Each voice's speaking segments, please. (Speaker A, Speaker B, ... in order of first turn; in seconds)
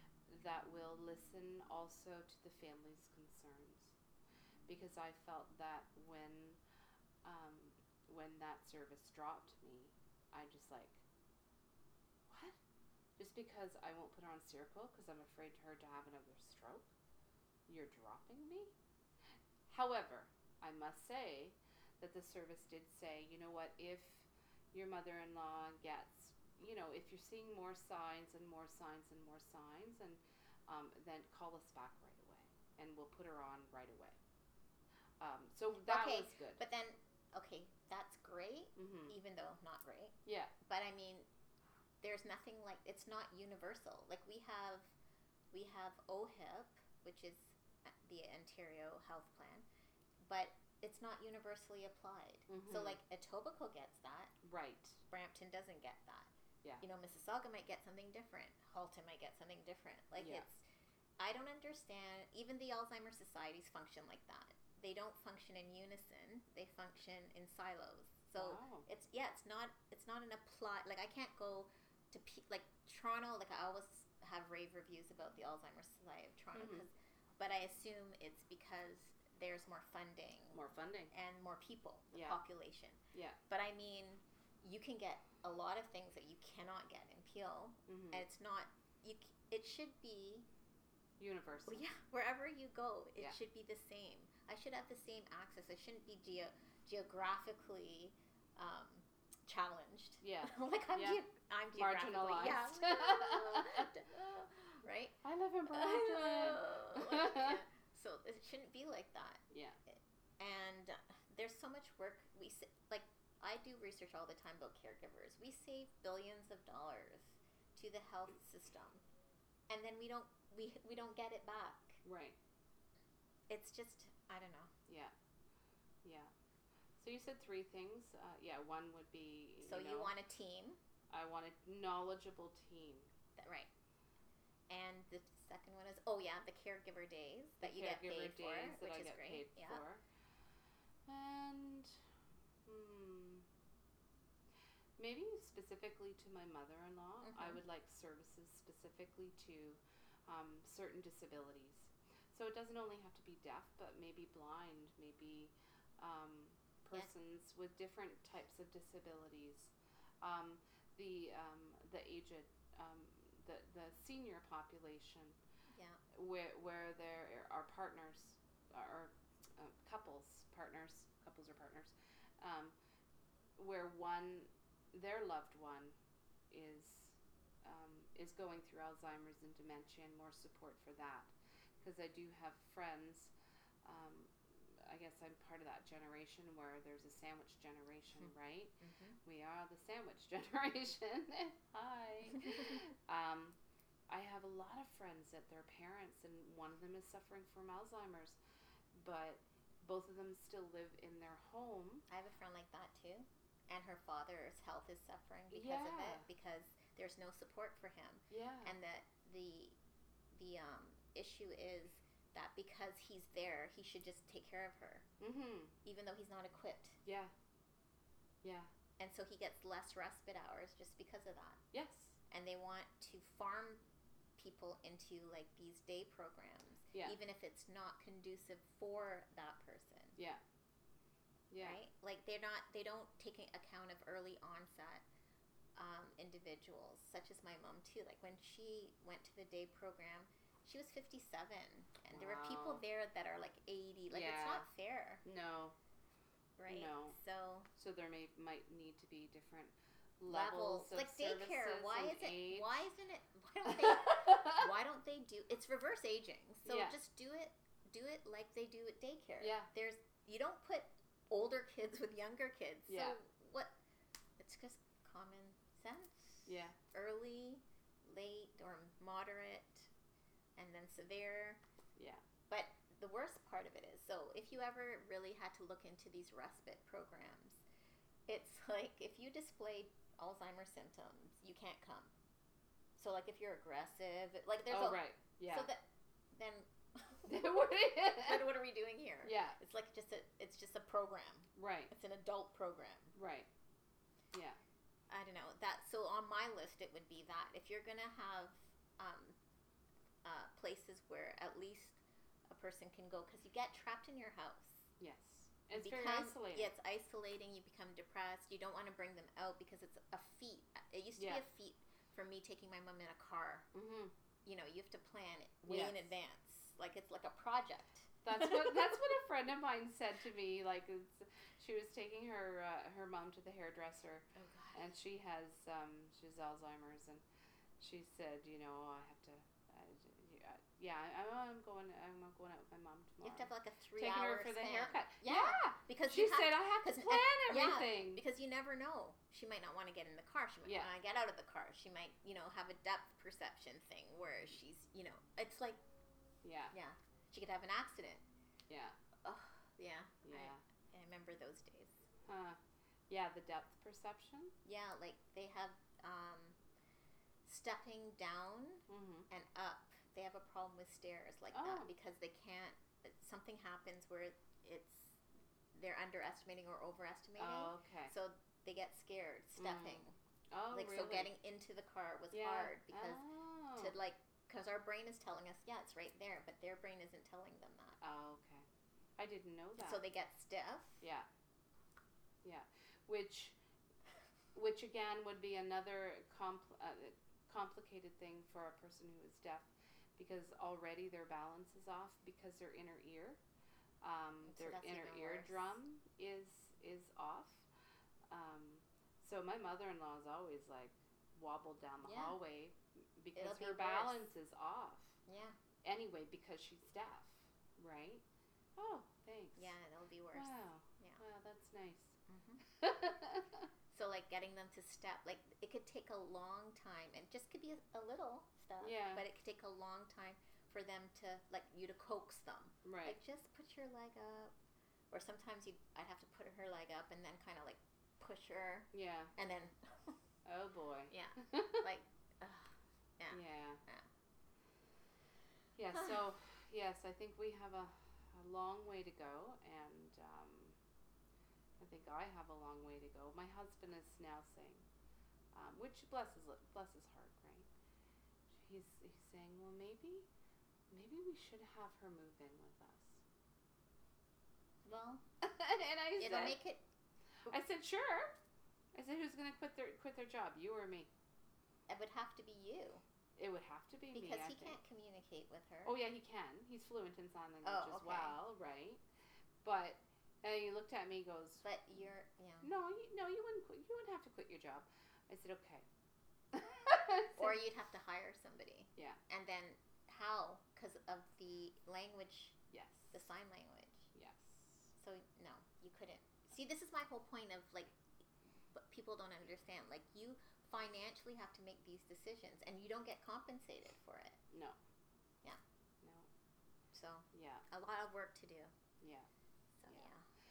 Speaker A: 0.3-4.0, 4.7-6.6, 7.2-11.0, 12.3-12.6, 13.2-16.9, 17.7-18.7, 19.7-34.2, 35.2-36.6, 38.8-39.2, 40.3-40.5, 52.5-53.0, 54.4-55.0, 60.2-60.5, 68.4-68.9, 76.5-76.9, 80.5-81.1, 82.1-82.4, 83.1-83.4, 87.9-88.3, 91.2-91.8, 100.2-101.2, 101.8-103.9, 105.2-107.6, 109.5-109.8, 122.0-122.4, 124.9-125.1, 126.0-126.3, 127.0-130.1, 131.1-133.1, 137.6-140.0, 141.1-142.0, 142.7-143.5, 145.0-165.4, 166.1-172.7, 173.6-175.9, 176.5-183.3, 183.8-193.6, 194.1-198.4, 198.9-202.1, 205.5-206.3, 208.3-208.8, 215.2-215.8, 217.1-217.3, 218.4-218.7, 221.7-222.2, 230.2-230.4, 231.5-231.8, 242.1-242.8, 244.1-244.7, 245.2-245.8, 246.7-247.2, 247.8-252.9, 253.7-254.7, 256.6-257.0, 259.4-259.7, 262.9-263.2, 266.5-266.8, 272.0-272.2, 284.7-285.7, 287.3-288.5, 289.2-289.6, 291.6-291.9, 293.1-293.5, 294.3-294.6, 305.0-306.7, 311.2-311.4, 313.7-314.1, 315.7-316.1, 318.2-327.2, 327.8-338.2, 340.6-340.9, 346.4-346.7, 348.7-349.0, 350.2-350.6, 352.3-354.5, 358.9-359.3, 361.5-361.9, 367.4-368.1, 369.6-371.3, 372.3-374.0, 378.0-378.7, 379.2-380.0, 381.0-381.3, 382.4-383.6, 384.5-393.4, 394.0-397.7, 398.3-405.2, 405.8-408.2, 408.8-409.8, 410.3-413.7, 418.8-419.2, 422.9-423.2, 428.9-429.3, 430.4-431.9, 433.3-433.8, 435.8-440.8, 441.8-444.9, 445.5-447.7, 448.5-450.3, 450.9-453.2, 455.4-456.6, 457.5-458.4, 458.9-461.1, 463.4-464.8, 465.9-469.0, 469.6-471.7, 472.6-475.9, 476.5-477.6, 482.7-483.1, 484.1-484.9, 494.5-494.8, 496.0-496.3, 497.3-497.6, 499.0-499.3
Speaker B: 35.9-41.3, 42.0-44.9, 45.5-49.7, 50.3-54.3, 55.1-56.3, 56.8-60.6, 61.2-90.5, 91.7-105.2, 105.7-119.0, 119.7-122.0, 123.5-124.7, 129.6-130.8, 133.4-133.7, 134.7-139.8, 147.2-147.6, 165.7-166.0, 188.8-189.2, 202.1-209.8, 210.3-215.1, 215.8-217.0, 219.0-221.6, 222.3-223.8, 224.4-230.2, 231.6-235.0, 235.8-245.2, 246.6-247.7, 250.3-263.8, 264.4-269.9, 270.6-271.6, 272.5-277.6, 278.3-282.1, 283.0-293.1, 295.1-299.4, 300.2-304.8, 305.7-313.7, 314.5-318.6, 324.4-324.9, 333.2-345.8, 346.7-348.2, 349.2-352.0, 354.6-356.6, 357.4-365.2, 365.7-370.2, 370.7-373.2, 373.8-378.0, 379.8-381.0, 394.4-395.7, 402.0-402.4, 403.4-404.2, 405.3-405.6, 409.6-411.2, 412.3-412.6, 413.9-424.5, 425.1-430.2, 431.1-434.1, 454.9-455.2, 456.2-456.8, 461.9-463.0, 464.1-465.9, 467.6-468.4, 471.6-472.7, 477.4-482.6, 483.1-484.1, 485.0-487.9, 488.7-494.4, 496.9-498.7, 499.8-500.2